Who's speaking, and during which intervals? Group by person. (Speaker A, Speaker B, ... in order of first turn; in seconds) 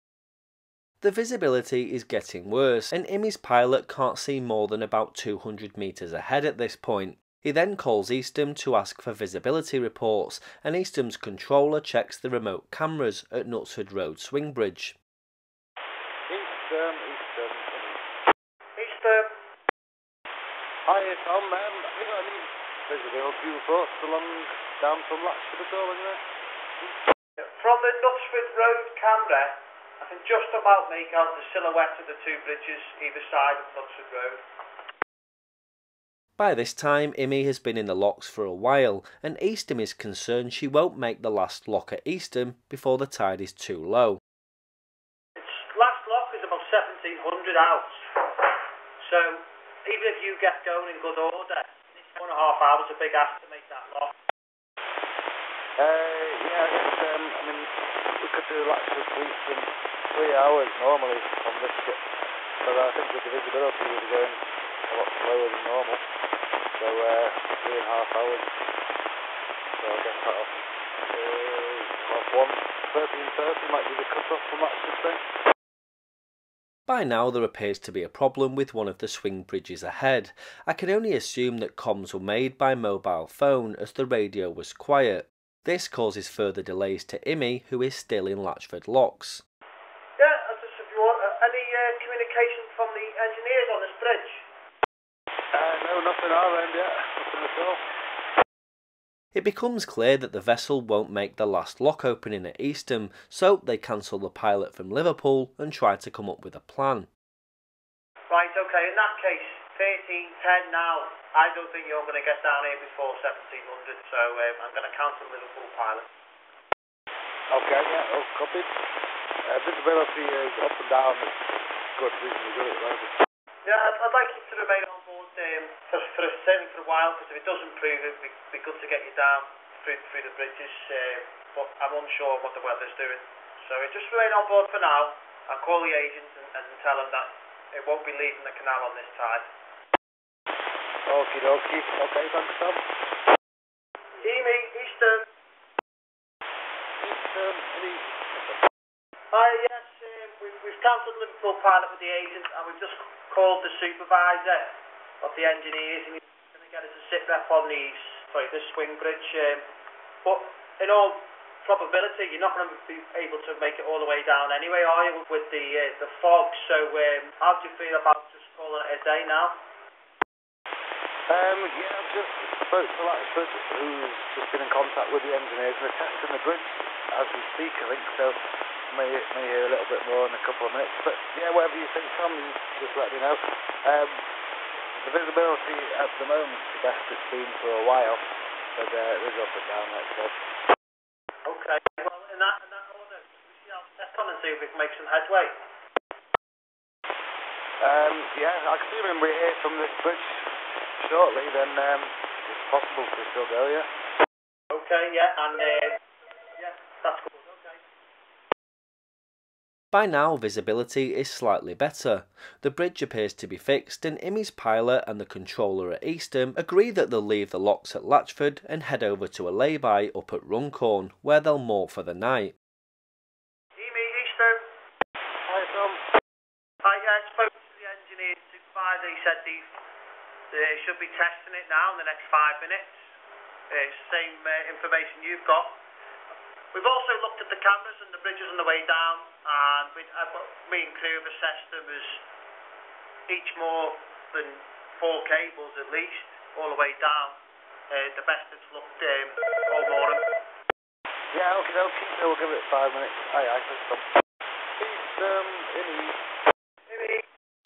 Speaker A: 1.0-15.0, 36.4-44.2, 76.9-89.4, 99.3-107.1, 209.9-222.6
Speaker B: 16.3-18.0, 20.9-26.2, 55.8-62.0, 62.6-66.0, 66.8-68.5, 69.8-70.5, 71.1-75.2, 95.5-97.8, 117.5-118.7, 119.5-123.1, 141.1-142.8, 147.0-148.6, 171.3-178.4, 178.9-184.2, 185.0-188.2, 188.8-190.3, 197.8-200.4, 201.0-203.9, 225.5-226.0, 251.3-254.1, 254.8-256.2
Speaker C: 18.8-19.3, 27.4-34.4, 45.4-48.3, 49.0-54.1, 90.2-94.5, 108.3-116.1, 123.6-139.5, 144.2-145.3, 149.3-159.6, 160.2-169.6, 191.5-195.6, 204.7-206.0, 206.6-207.8, 223.8-224.6, 226.8-229.7, 230.5-232.9, 233.7-235.8, 236.7-242.2, 243.3-247.4, 247.9-250.3, 256.9-257.3